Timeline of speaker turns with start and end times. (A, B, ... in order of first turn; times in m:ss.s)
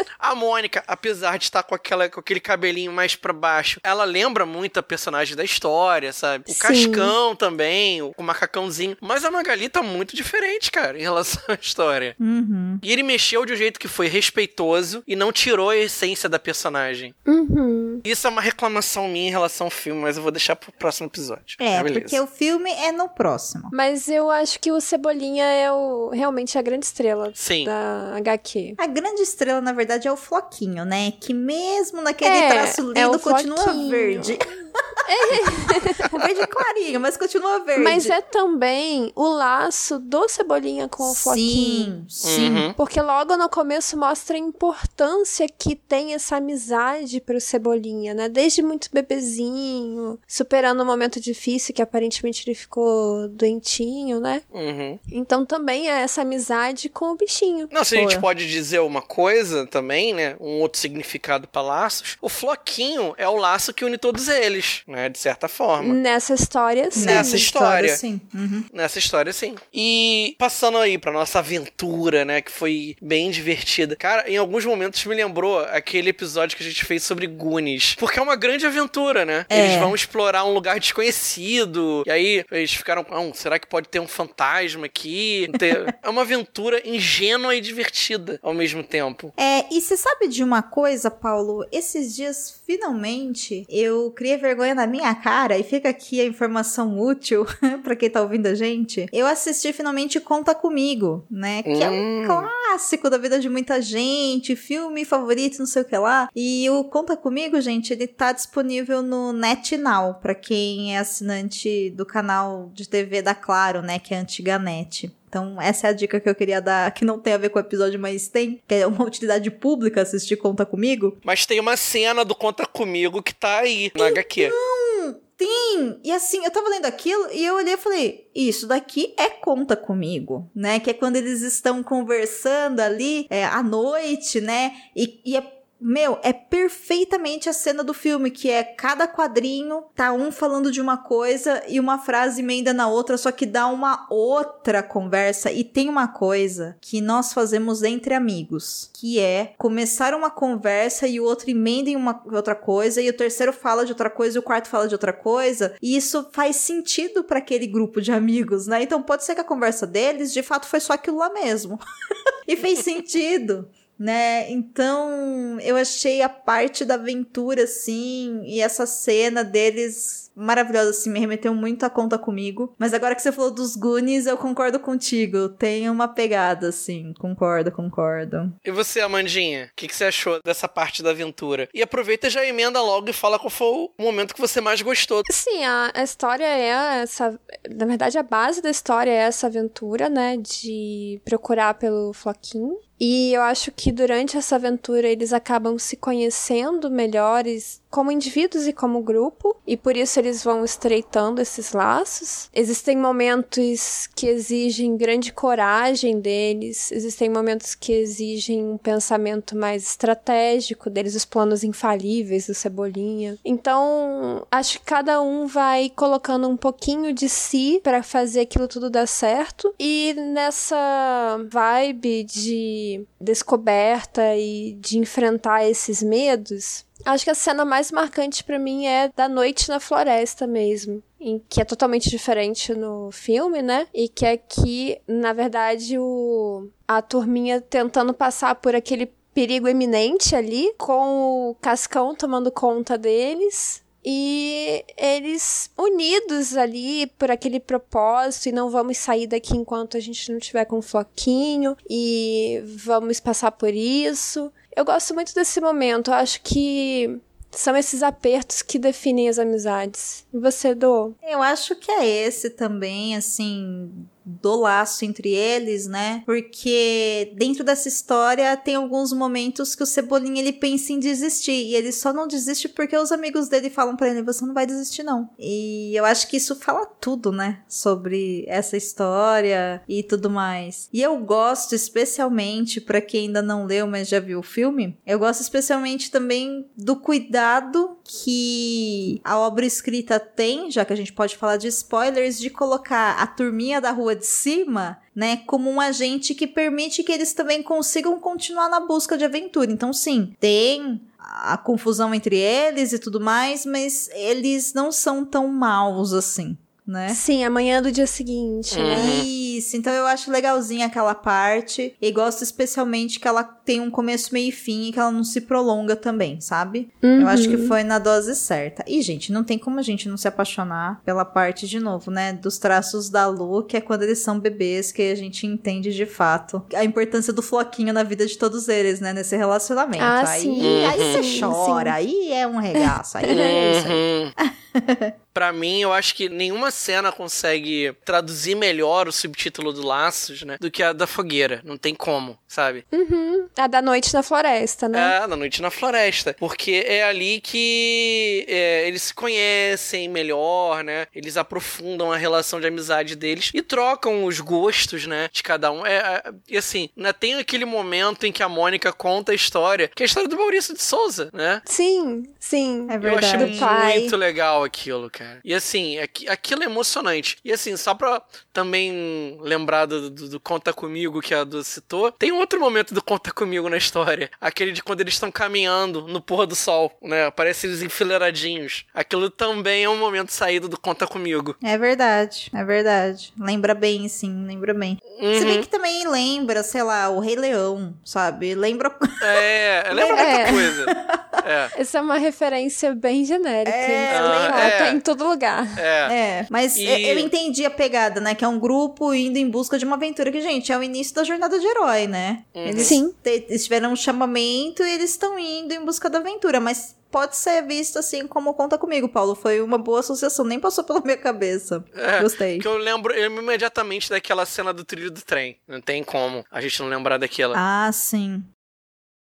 0:00.2-0:12.2 A
0:06.5-0:07.1 B
0:12.2-0:12.8 C
0:12.8-0:17.1 A
0:17.2-0:18.0 B
0:18.0-0:22.2 A
0:21.6-0:23.7 C
0:23.7-0:28.8 B
0:27.4-0:27.7 A
0:28.8-0:34.5 C
0:32.2-0:34.4 B
0:35.0-0:36.2 B
0:36.1-0:38.1 C
0:37.8-0:41.9 B
0:41.0-0:42.7 C
0:42.2-0:42.7 A
0:42.8-0:54.4 B
0:54.5-0:55.0 A
0:55.1-0:57.7 B
0:57.7-1:06.0 A
0:57.9-0:58.2 C
1:05.8-1:07.5 B
1:06.9-1:08.6 C
1:07.0-1:08.0 A
1:08.7-1:29.3 A
1:19.5-1:19.9 C
1:29.4-2:01.2 C
1:41.6-1:42.5 A
2:01.2-2:04.5 A
2:04.0-2:41.8 C
2:42.5-2:58.5 C
2:58.6-3:05.2 A
3:05.3-4:21.1 B
4:21.2-5:07.2 C
5:07.1-5:09.2 B
5:08.7-5:09.3 A
5:08.9-5:35.1 C
5:17.0-5:17.8 B
5:30.0-5:32.0 B
5:30.6-5:31.5 A
5:32.8-5:33.9 B
5:33.3-5:34.3 A
5:35.3-5:42.8 A
5:42.9-5:45.1 B
5:44.9-6:01.6 A
6:01.6-6:04.1 B
6:02.9-6:03.9 C
6:03.0-6:21.6 A
6:21.6-6:31.4 C
6:25.2-6:25.6 A
6:29.2-6:31.7 A
6:30.1-6:30.7 B
6:31.7-6:35.8 B
6:33.6-6:34.7 C
6:34.1-6:35.0 A
6:35.8-6:36.1 A
6:36.0-6:52.6 C
6:36.7-6:37.3 A
6:42.6-6:43.0 A
6:42.8-6:43.1 B
6:52.0-6:57.6 A
6:57.5-6:58.5 C